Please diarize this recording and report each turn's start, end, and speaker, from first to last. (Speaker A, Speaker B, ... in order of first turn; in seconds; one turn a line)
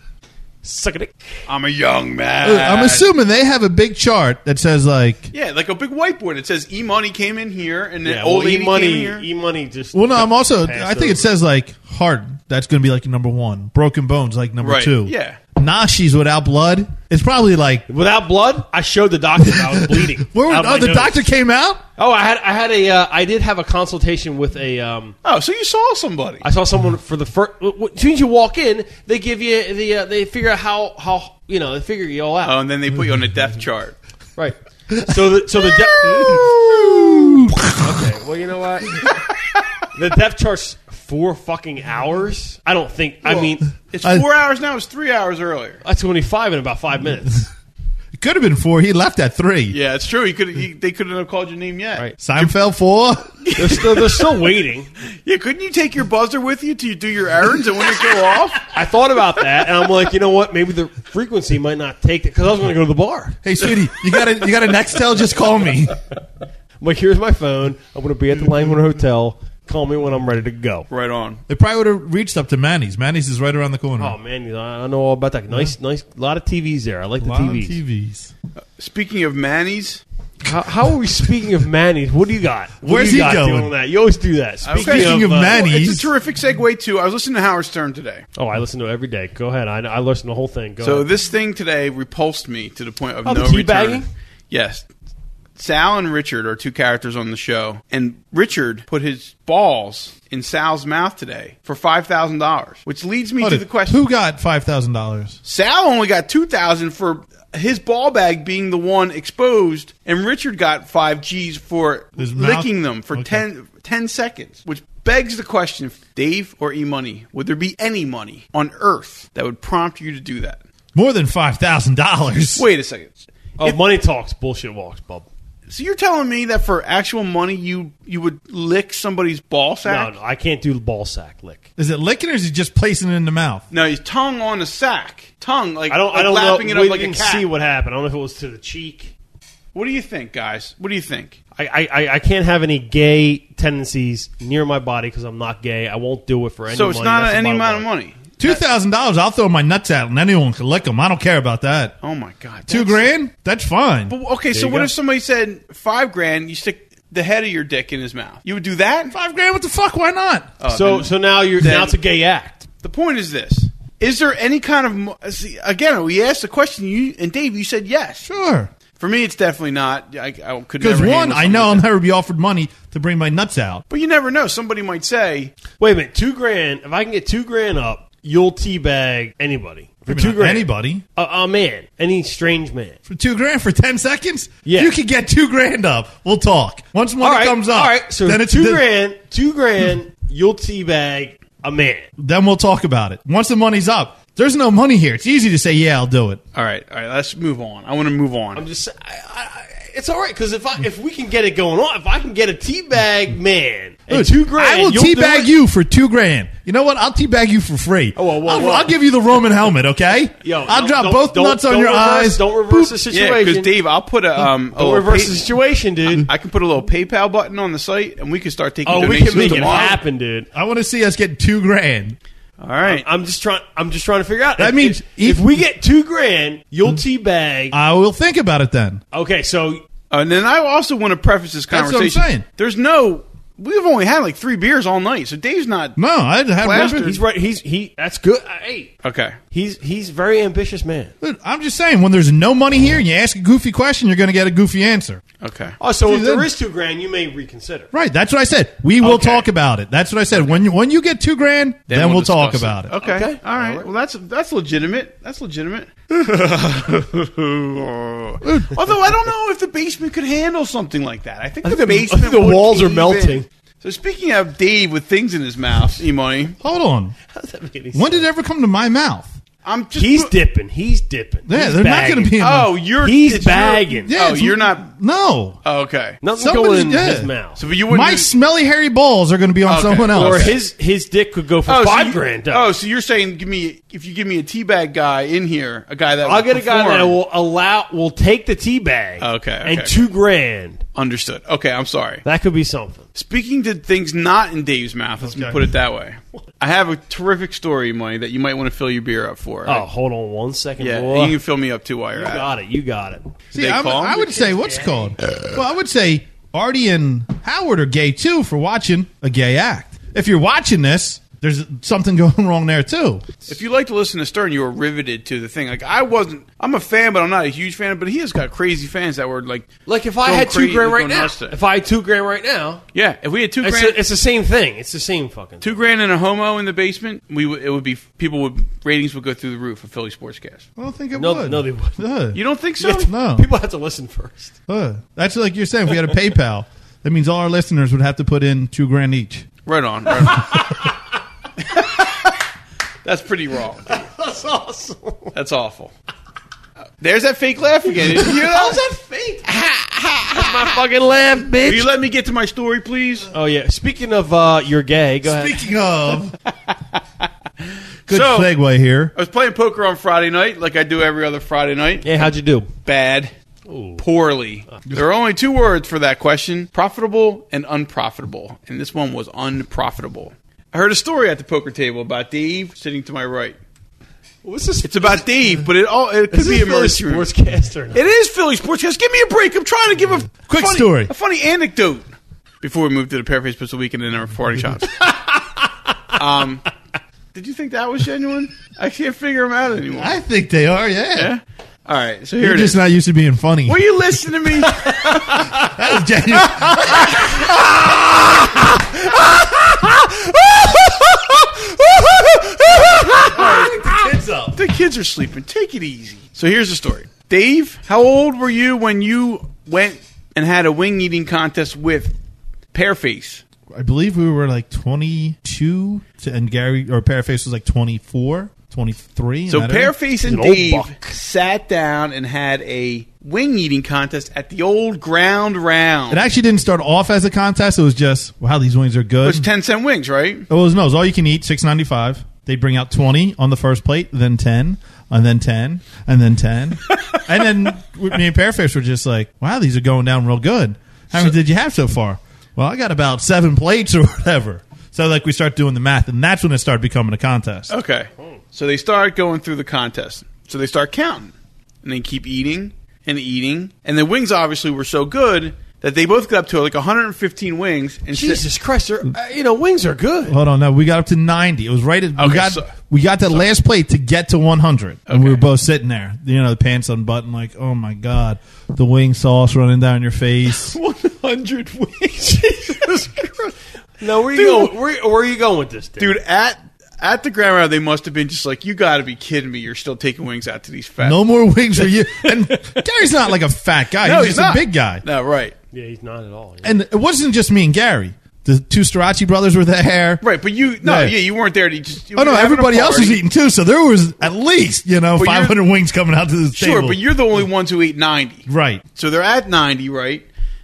Speaker A: 0.6-1.3
Speaker B: 1.5-3.1
Speaker C: 2.4-5.3
Speaker B: 5.3-9.3
Speaker A: 8.0-11.3
Speaker C: 9.9-17.9
Speaker B: 14.6-15.4
Speaker A: 17.9-21.3
Speaker C: 19.4-21.8
Speaker A: 22.0-25.2
Speaker B: 25.2-26.4
Speaker A: 26.4-32.6
Speaker B: 32.4-34.0
Speaker A: 34.4-36.5
Speaker C: 36.0-37.8
Speaker A: 37.8-39.1
Speaker A: 39.9-43.7
Speaker B: 43.3-45.8
Speaker A: 45.8-47.5
Speaker C: 48.2-49.8
Speaker B: 49.7-52.5
Speaker C: 52.2-53.3
Speaker B: 53.3-54.3
Speaker A: 53.5-54.9
Speaker B: 55.2-58.7
Speaker A: 58.7-63.4
Speaker C: 63.4-66.0
Speaker A: 66.8-70.9
Speaker B: 70.9-71.4
Speaker C: 71.5-74.2
Speaker A: 74.0-77.8
Speaker C: 77.2-78.3
Speaker B: 78.6-80.0
Speaker A: 80.4-85.7
Speaker C: 82.8-83.7
Speaker B: 84.7-88.2
Speaker C: 84.7-86.1
Speaker A: 88.4-91.1
Speaker B: 90.8-94.9
Speaker A: 93.2-94.1
Speaker B: 95.6-104.0
Speaker C: 103.4-105.4
Speaker B: 105.5-120.6
Speaker C: 112.2-113.5
Speaker C: 121.0-122.7
Speaker B: 122.6-123.8
Speaker A: 123.6-125.3
Speaker B: 125.7-130.1
Speaker A: 129.8-131.7
Speaker C: 131.8-133.7
Speaker B: 133.7-137.5
Speaker A: 135.9-139.1
Speaker B: 139.7-141.4
Speaker A: 141.6-147.9
Speaker B: 146.7-148.6
Speaker C: 148.4-151.9
Speaker B: 152.0-153.1
Speaker C: 152.7-154.2
Speaker B: 154.1-159.2
Speaker A: 154.5-154.9
Speaker C: 159.1-160.5
Speaker B: 160.6-162.0
Speaker A: 160.7-162.7
Speaker B: 162.8-168.3
Speaker C: 168.2-168.7
Speaker B: 169.0-171.9
Speaker C: 170.8-173.8
Speaker B: 173.9-175.6
Speaker A: 175.8-183.0
Speaker C: 180.1-181.0
Speaker C: 183.1-188.9
Speaker A: 184.7-184.9
Speaker A: 187.2-192.1
Speaker C: 192.2-196.4
Speaker B: 196.5-198.6
Speaker A: 198.5-205.5
Speaker C: 204.1-212.9
Speaker A: 208.2-208.9
Speaker A: 210.4-213.7
Speaker B: 213.1-215.5
Speaker A: 214.7-216.3
Speaker B: 216.2-220.0
Speaker A: 218.8-220.5
Speaker C: 219.3-220.0
Speaker C: 220.5-222.2
Speaker B: 222.6-223.1
Speaker A: 222.8-227.8
Speaker C: 224.6-225.6
Speaker C: 227.7-229.0
Speaker A: 229.1-229.8
Speaker B: 230.1-236.0
Speaker C: 231.7-232.4
Speaker C: 236.0-237.1
Speaker B: 236.6-237.2
Speaker A: 236.9-238.9
Speaker B: 239.0-239.4
Speaker A: 239.5-241.1
Speaker C: 241.2-245.2
Speaker B: 245.4-245.8
Speaker A: 245.8-247.9
Speaker C: 246.0-246.5
Speaker C: 247.9-252.9
Speaker B: 249.0-249.5
Speaker B: 250.3-250.6
Speaker B: 251.9-266.6
Speaker A: 253.0-253.9
Speaker C: 258.4-258.8
Speaker A: 261.6-263.5
Speaker C: 266.6-267.1
Speaker A: 267.3-268.3
Speaker C: 267.9-269.3
Speaker B: 269.6-270.3
Speaker A: 269.9-272.4
Speaker C: 271.5-272.8
Speaker B: 272.4-274.9
Speaker A: 273.0-274.1
Speaker C: 274.1-275.6
Speaker B: 275.6-276.2
Speaker A: 276.2-277.6
Speaker C: 276.4-277.3
Speaker B: 277.6-278.3
Speaker C: 277.9-280.6
Speaker B: 279.7-280.6
Speaker A: 280.1-282.7
Speaker B: 281.7-287.2
Speaker A: 286.2-290.8
Speaker B: 289.2-290.0
Speaker B: 291.0-292.2
Speaker A: 292.2-293.1
Speaker B: 293.1-299.9
Speaker C: 295.2-295.6
Speaker A: 299.7-301.4
Speaker B: 300.8-302.5
Speaker A: 302.1-303.5
Speaker B: 303.5-304.3
Speaker C: 303.5-313.2
Speaker A: 304.1-305.2
Speaker B: 313.5-319.7
Speaker A: 319.9-322.8
Speaker B: 320.2-321.6
Speaker B: 322.9-324.0
Speaker A: 323.6-325.8
Speaker B: 325.6-330.7
Speaker C: 330.8-333.5
Speaker A: 331.1-332.0
Speaker B: 332.3-333.1
Speaker A: 332.8-334.6
Speaker C: 334.7-339.5
Speaker B: 339.7-340.7
Speaker A: 340.3-340.9
Speaker B: 341.7-342.3
Speaker B: 343.0-344.1
Speaker A: 343.9-345.3
Speaker B: 345.3-345.9
Speaker B: 347.0-348.8
Speaker A: 348.1-349.4
Speaker B: 349.4-350.7
Speaker A: 350.3-351.8
Speaker C: 350.8-351.8
Speaker B: 351.6-353.3
Speaker A: 353.3-355.6
Speaker C: 355.2-356.4
Speaker B: 358.1-358.5
Speaker C: 358.1-359.1
Speaker B: 359.1-362.3
Speaker A: 362.0-362.7
Speaker B: 362.9-363.3
Speaker A: 363.7-364.0
Speaker B: 364.0-373.6
Speaker A: 374.4-375.7
Speaker B: 374.8-377.3
Speaker A: 376.3-378.1
Speaker B: 377.9-382.1
Speaker C: 380.5-381.1
Speaker B: 382.6-385.0
Speaker B: 386.2-386.7
Speaker B: 387.3-390.1
Speaker C: 389.9-391.3
Speaker B: 391.2-392.8
Speaker C: 392.4-393.8
Speaker B: 393.7-395.6
Speaker C: 395.3-404.6
Speaker B: 403.3-403.9
Speaker B: 404.6-412.1
Speaker B: 412.7-413.4
Speaker C: 413.7-419.9
Speaker B: 419.5-426.2
Speaker A: 420.2-421.1
Speaker C: 426.1-429.5
Speaker B: 429.2-430.5
Speaker C: 430.5-447.7
Speaker B: 447.7-458.4
Speaker A: 458.1-460.4
Speaker C: 460.2-470.8
Speaker B: 462.2-462.7
Speaker B: 465.1-465.5
Speaker B: 470.6-473.3
Speaker A: 472.2-476.2
Speaker B: 474.3-474.7
Speaker B: 476.0-481.2
Speaker C: 481.0-485.0
Speaker B: 484.0-485.6
Speaker A: 485.7-486.8
Speaker C: 486.6-490.2
Speaker B: 490.2-493.2
Speaker C: 490.8-491.2
Speaker C: 492.1-497.0
Speaker B: 495.2-495.6
Speaker B: 496.6-500.3
Speaker C: 498.5-498.8